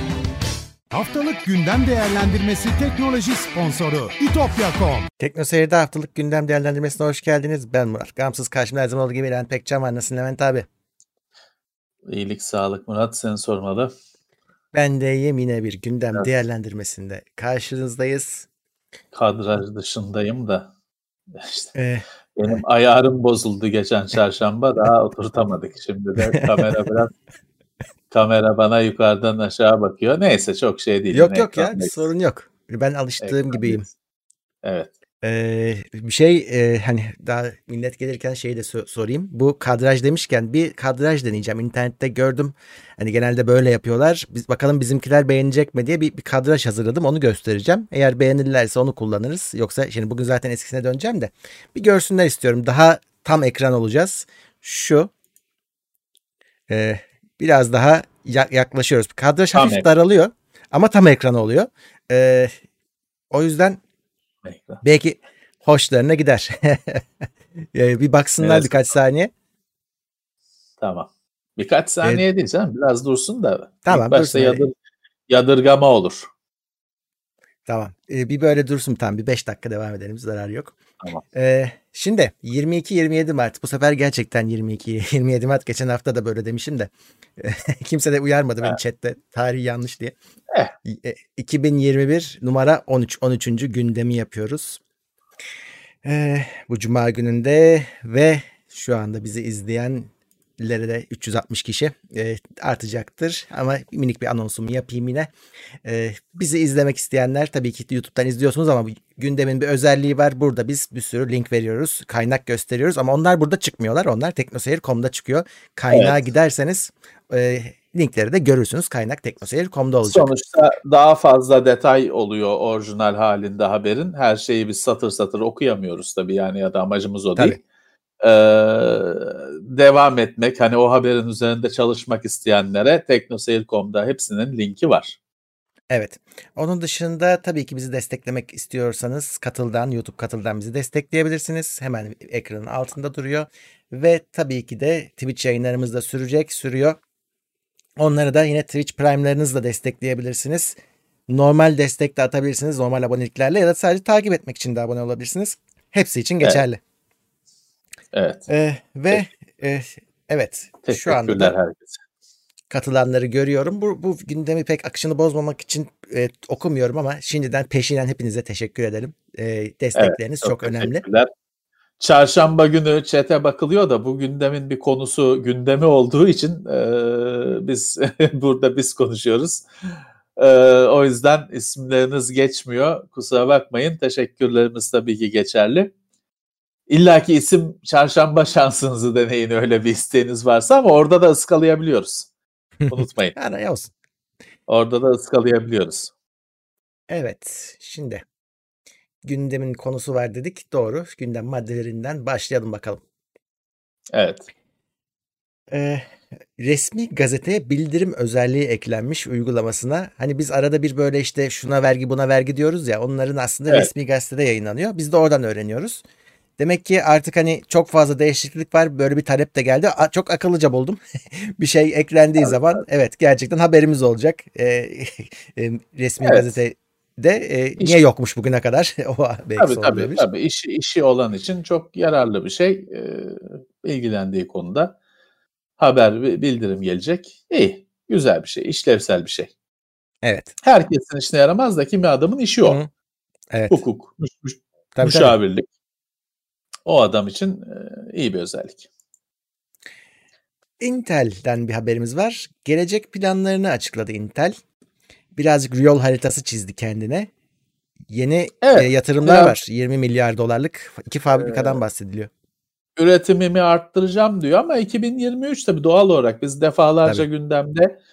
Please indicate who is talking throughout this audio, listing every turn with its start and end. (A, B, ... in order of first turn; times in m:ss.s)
0:00.9-0:05.1 A
0:05.2-0:10.7 B
0:12.1-0:13.9 C
0:14.7-0:18.4 B
0:19.1-0:20.7 C
0:21.4-0:21.7 C
0:21.7-0:22.0 B
0:22.4-0:27.1 C
0:28.1-0:32.0 C
0:31.1-0:33.8 B
0:33.2-0:33.9 C
0:34.6-0:34.9 C
0:35.2-0:55.1 B
0:56.7-1:02.5 B
0:59.6-0:59.8 C
1:03.3-1:03.8 B
1:04.4-1:04.8 C
1:04.8-1:07.0 B
1:07.7-1:09.3 B
1:08.4-1:08.8 C
1:10.8-1:14.7 C
1:13.8-1:14.6 B
1:15.3-1:16.3 C
1:17.7-1:20.8 B
1:21.3-1:30.1 B
1:30.8-1:34.8 B
1:36.0-1:45.3 B
1:45.8-2:00.3 B
1:55.9-1:56.2 C
2:00.0-2:07.6 C
2:08.2-2:15.2 C
2:15.9-2:27.0 B
2:28.0-2:30.8 B
2:31.3-2:36.8 B
2:38.1-2:38.5 C
2:38.5-2:41.5 B
2:40.8-2:42.0 C
2:42.7-2:51.0 B
2:50.0-2:51.3 C
2:52.0-2:59.7 C
3:00.4-3:05.9 C
3:06.9-3:12.3 C
3:12.8-3:13.9 B
3:12.9-3:13.4 C
3:14.7-3:16.1 C
3:17.1-3:18.2 B
3:19.2-3:23.0 B
3:24.1-3:24.5 C
3:25.7-3:26.0 B
3:26.6-3:36.0 B
3:36.6-3:50.2 B
3:42.4-3:42.8 C
3:46.2-3:46.6 C
3:49.6-3:54.9 C
3:55.8-3:59.5 C
4:00.2-4:00.5 B
4:00.6-4:02.8 C
4:03.5-4:03.8 B
4:03.7-4:05.7 C
4:04.9-4:05.3 B
4:06.9-4:08.8 C
4:10.8-4:14.6 B
4:15.4-4:17.3 B
4:18.1-4:22.3 B
4:18.6-4:19.6 C
4:21.3-4:21.8 C
4:23.0-4:27.9 C